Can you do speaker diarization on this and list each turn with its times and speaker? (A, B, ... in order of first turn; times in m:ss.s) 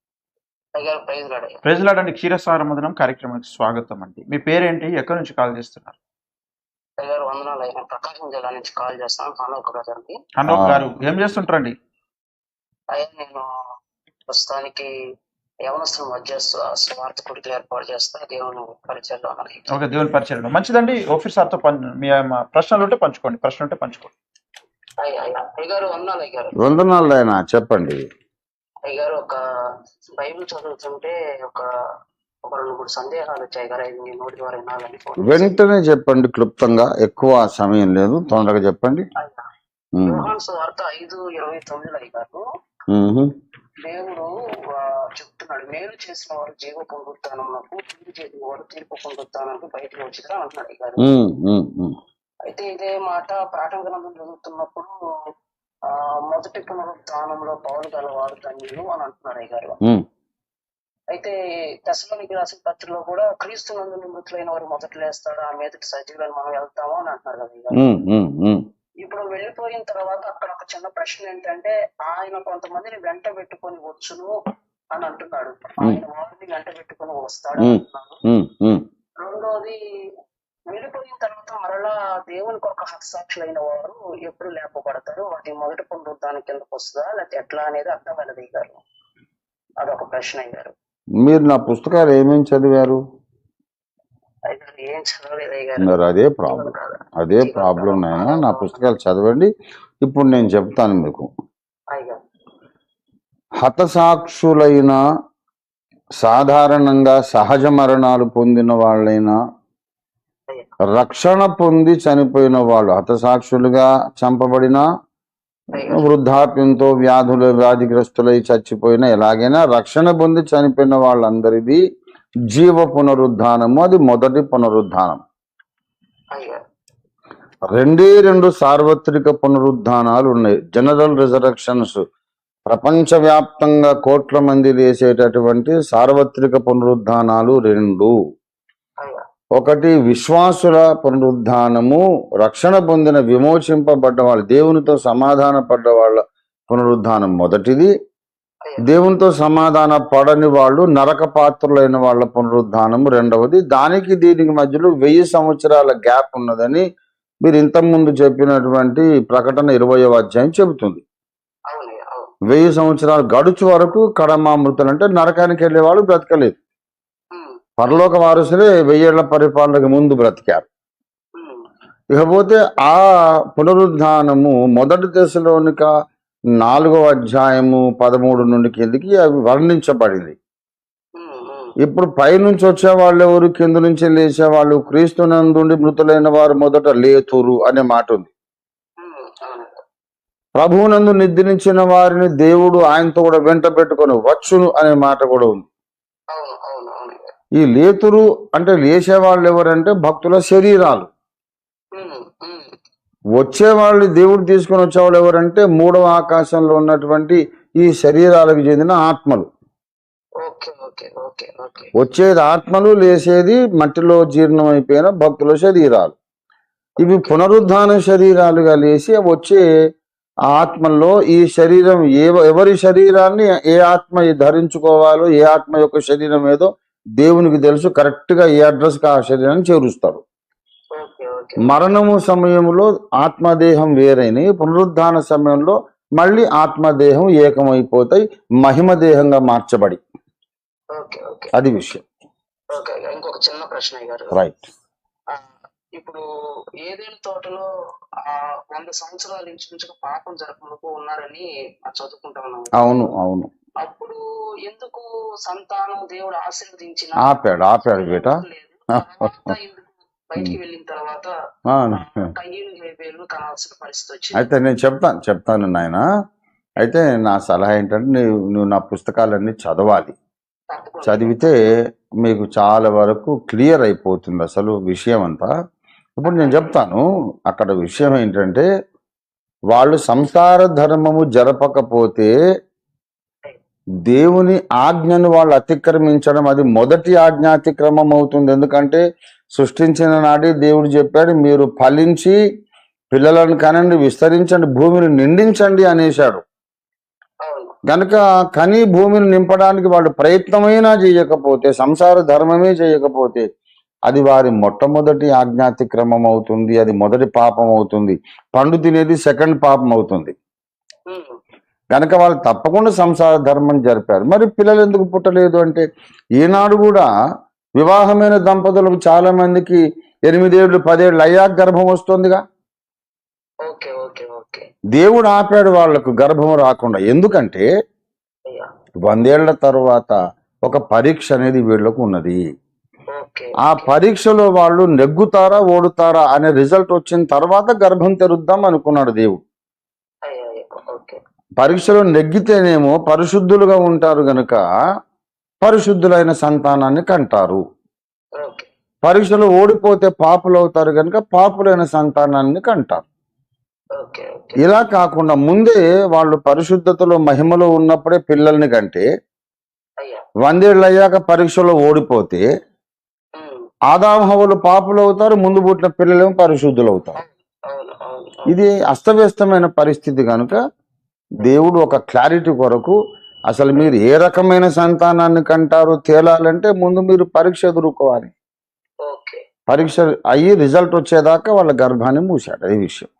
0:00.8-0:01.6 A
0:01.6-0:06.0 B
0:07.0-0:10.1 A
0:10.4-0:11.7 B
0:10.5-0:10.9 C
0:12.9-0:13.4 A
0:14.3-0:14.9 A
0:15.6-0:19.6 A
0:19.7-0:24.1 B
0:25.0-0:26.6 A
0:26.6-0:28.0 C
0:28.9-0:29.4 A
0:30.2-0:31.6 A
0:32.4-0:35.5 A
0:35.2-0:39.0 C
0:39.2-0:39.4 A
0:39.9-0:40.3 C
0:40.0-0:42.4 A
0:42.9-0:43.3 C
0:43.8-0:51.1 A
0:51.0-0:52.0 C
0:52.4-0:54.9 A
0:55.9-0:59.8 A
1:01.8-1:07.8 A
1:07.8-1:08.6 C
1:09.0-1:14.4 A
1:14.9-1:18.2 A
1:17.6-1:18.8 C
1:19.2-1:19.8 A
1:20.7-1:28.8 A
1:29.8-1:30.7 A
1:31.2-1:33.0 C
1:34.5-1:38.8 A
1:35.8-1:39.5 C
1:40.0-1:41.3 C
1:41.9-1:42.2 A
1:43.6-1:45.0 C
1:46.2-1:49.3 C
1:50.9-1:54.8 C
1:55.7-1:56.1 A
1:55.8-2:01.8 C
2:02.5-2:05.2 C
2:06.3-2:06.6 A
2:07.7-2:12.0 C
2:12.7-2:18.1 C
2:19.6-2:27.9 C
2:28.6-2:28.9 A
2:28.8-2:36.8 C
2:37.4-2:41.0 C
2:41.7-2:42.3 A
2:42.5-2:46.6 C
2:47.3-2:47.7 A
2:47.8-2:50.6 C
2:51.3-2:51.6 A
2:52.1-2:55.9 C
2:56.6-3:00.4 C
3:01.2-3:01.7 A
3:01.8-3:08.3 C
3:09.0-3:09.8 A
3:10.6-3:15.6 C
3:16.3-3:17.3 A
3:17.6-3:21.1 C
3:21.9-3:22.7 A
3:23.4-3:29.5 C
3:30.4-3:31.9 A
3:32.0-3:36.2 C
3:37.0-3:37.4 A
3:37.0-3:39.6 C
3:40.5-3:50.2 C
3:50.9-3:51.8 A
3:51.6-4:00.0 C
4:01.0-4:01.5 A
4:01.5-4:02.0 C
4:02.7-4:04.4 A
4:04.3-4:04.6 C
4:05.3-4:06.2 A
4:06.8-4:07.6 A
4:08.2-4:13.0 A
4:12.8-4:13.5 C
4:13.8-4:21.3 A
4:17.2-4:18.4 C
4:19.0-4:19.5 C
4:21.7-4:22.3 C
4:21.9-4:24.5 A
4:24.4-4:26.0 C
4:26.8-4:30.1 C
4:30.7-4:31.4 A
4:31.0-4:31.6 C
4:32.2-4:35.5 C
4:36.2-4:38.7 C
4:36.2-4:36.8 A
4:39.7-4:42.3 C
4:44.0-4:49.0 C
4:49.5-4:52.4 C
4:53.1-4:56.4 C
4:57.4-4:57.8 A
4:57.9-5:03.4 C
5:04.1-5:10.3 C
5:11.1-5:11.4 A
5:11.9-5:15.8 C
5:16.4-5:17.1 C
5:17.8-5:22.4 C
5:23.6-5:24.7 A
5:24.9-5:27.6 C
5:29.0-5:32.4 C
5:33.1-5:33.9 A
5:33.6-5:39.4 C
5:40.2-5:41.2 A
5:41.6-5:44.6 C
5:45.6-5:47.6 C
5:48.4-5:48.7 A
5:49.0-5:53.0 C
5:54.0-5:54.8 A
5:54.6-5:59.0 C
6:00.4-6:02.4 C
6:03.4-6:03.6 A
6:03.9-6:07.2 C
6:07.2-6:08.5 A
6:08.5-6:10.6 C
6:11.4-6:13.0 C
6:13.5-6:18.3 C
6:19.0-6:19.4 A
6:19.7-6:23.1 C